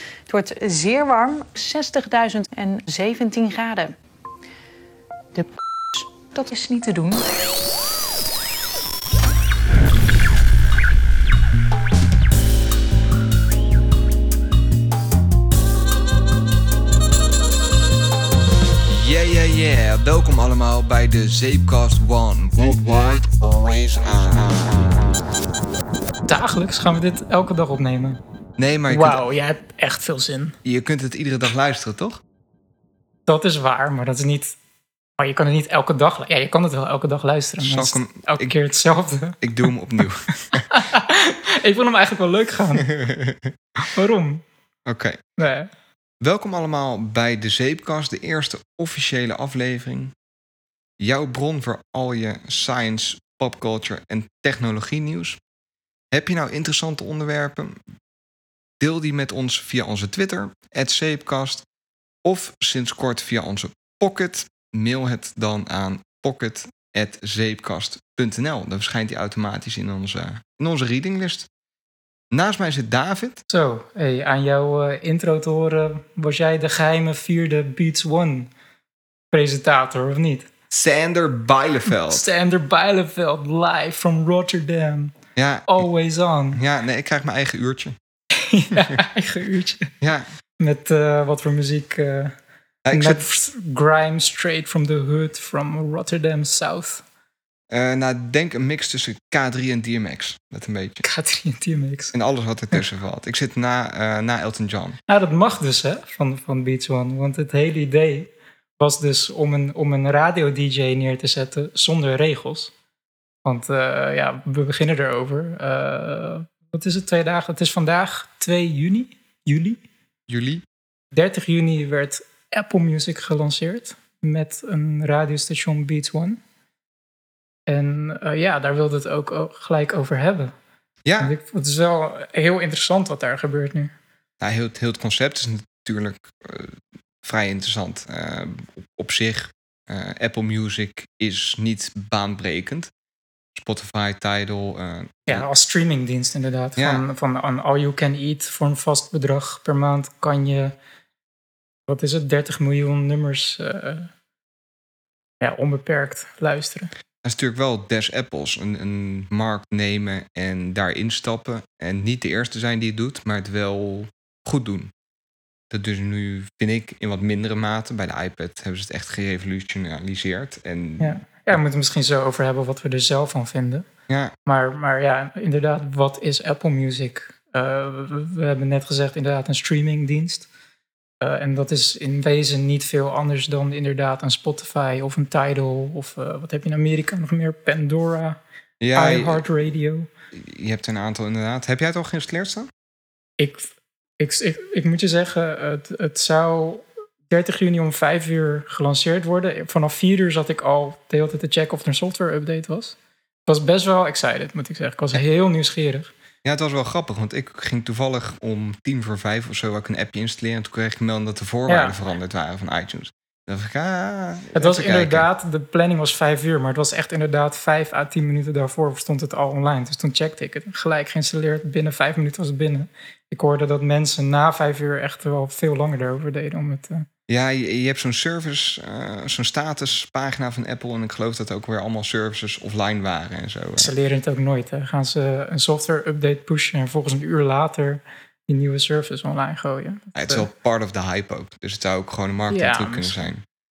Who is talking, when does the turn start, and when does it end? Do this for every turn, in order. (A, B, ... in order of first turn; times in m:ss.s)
0:00.3-0:04.0 A
0:05.4-0:07.3 A
0:18.9-0:24.9 B
0:26.3-0:28.2 C
0:28.6-0:29.2 B
0:28.9-0:30.6 C
0:30.6-0:32.2 B
0:33.3-0:34.6 C
0:35.2-0:39.4 C
0:37.6-0:38.6 B
0:39.4-0:40.7 B
0:40.7-0:42.9 C
0:42.8-0:43.6 B
0:43.8-0:44.4 C
0:44.9-0:45.2 B
0:45.4-0:45.7 C
0:46.2-0:50.1 B
0:51.0-0:55.4 B
0:56.1-0:57.8 B
0:58.8-1:01.6 B
1:02.2-1:11.5 B
1:12.3-1:13.4 B
1:13.5-1:18.5 C
1:19.3-1:20.5 C
1:20.7-1:22.3 B
1:22.1-1:25.1 C
1:25.4-1:25.8 B
1:25.7-1:26.6 C
1:26.5-1:28.0 B
1:28.4-1:29.9 C
1:30.0-1:30.3 B
1:30.6-1:32.4 C
1:32.9-1:33.2 B
1:32.9-1:37.0 C
1:37.7-1:41.1 B
1:41.0-1:42.2 C
1:42.1-1:45.0 B
1:45.1-1:52.7 C
1:53.4-1:59.8 C
2:00.3-2:00.6 B
2:01.1-2:06.4 C
2:07.7-2:10.5 C
2:11.0-2:11.3 B
2:11.2-2:13.9 C
2:14.4-2:22.9 B
2:23.5-2:25.5 B
2:25.3-2:30.8 C
2:26.8-2:27.0 B
2:31.9-2:34.1 C
2:35.4-2:36.9 C
2:37.2-2:44.9 B
2:45.7-2:51.2 B
2:51.0-2:53.9 C
2:54.1-2:54.3 B
2:54.5-3:00.5 C
3:01.2-3:08.4 C
3:08.8-3:09.5 B
3:09.0-3:10.1 C
3:10.3-3:12.7 B
3:13.4-3:23.0 C
3:23.5-3:26.1 C
3:26.4-3:35.3 B
3:31.7-3:32.0 C
3:34.6-3:47.1 C
3:47.3-3:53.9 B
3:53.8-4:00.5 C
4:00.2-4:03.4 B
4:02.5-4:03.2 C